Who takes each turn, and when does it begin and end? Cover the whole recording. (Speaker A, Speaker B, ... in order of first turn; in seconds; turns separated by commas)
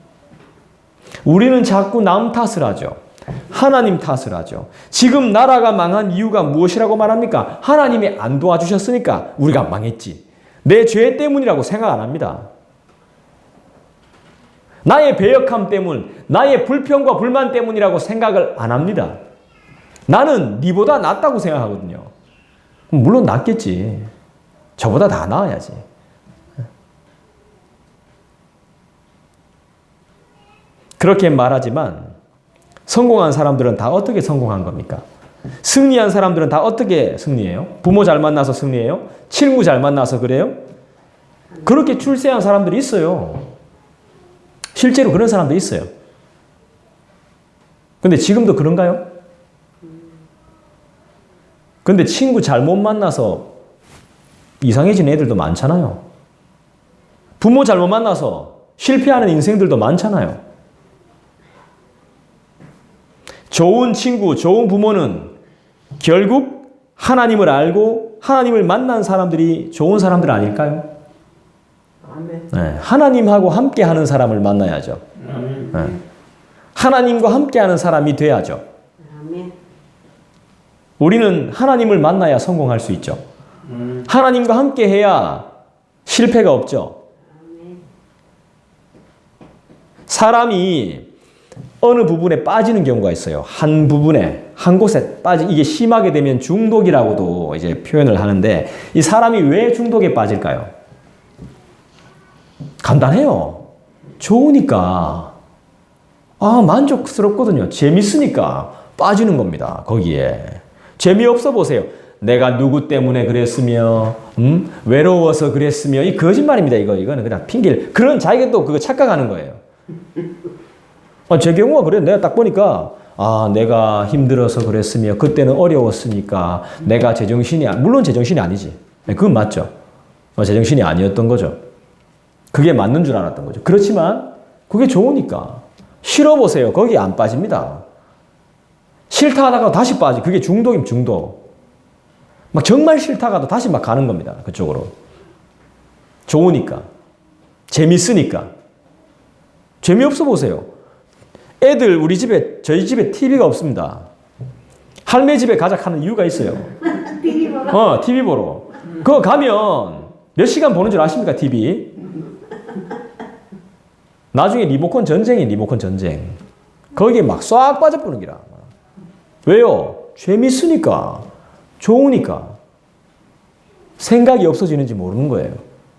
Speaker A: 1.2-3.0, Speaker A: 3.5-12.5, Speaker A: 14.8-19.1, Speaker A: 20.1-22.1, Speaker A: 22.9-24.1, Speaker A: 24.8-25.8, Speaker A: 31.0-32.1, Speaker A: 32.9-35.0, Speaker A: 35.6-40.6, Speaker A: 41.6-43.5, Speaker A: 44.7-45.9, Speaker A: 48.0-49.0, Speaker A: 51.8-53.5, Speaker A: 54.6-56.0, Speaker A: 57.4-60.4, Speaker A: 63.5-65.3, Speaker A: 66.0-70.8, Speaker B: 72.0-72.5, Speaker A: 72.5-75.0, Speaker A: 75.6-76.0, Speaker A: 76.7-78.6, Speaker B: 79.0-79.5, Speaker A: 81.0-83.2, Speaker A: 84.0-85.5, Speaker A: 86.0-87.0, Speaker B: 87.3-87.8, Speaker A: 90.1-91.1, Speaker A: 91.8-100.7, Speaker A: 102.8-103.7, Speaker A: 104.2-105.3, Speaker A: 106.4-119.6, Speaker A: 121.3-129.7, Speaker A: 130.4-131.6, Speaker A: 132.5-137.8, Speaker A: 139.1-141.4, Speaker A: 142.5-144.9, Speaker A: 146.3-146.8, Speaker A: 147.7-148.5, Speaker A: 149.8-150.7, Speaker A: 151.6-154.1, Speaker A: 155.1-157.0, Speaker B: 157.0-157.6, Speaker A: 157.5-161.9, Speaker A: 164.3-166.4, Speaker A: 166.9-168.6, Speaker A: 169.4-171.3, Speaker A: 171.8-172.6, Speaker A: 174.0-175.6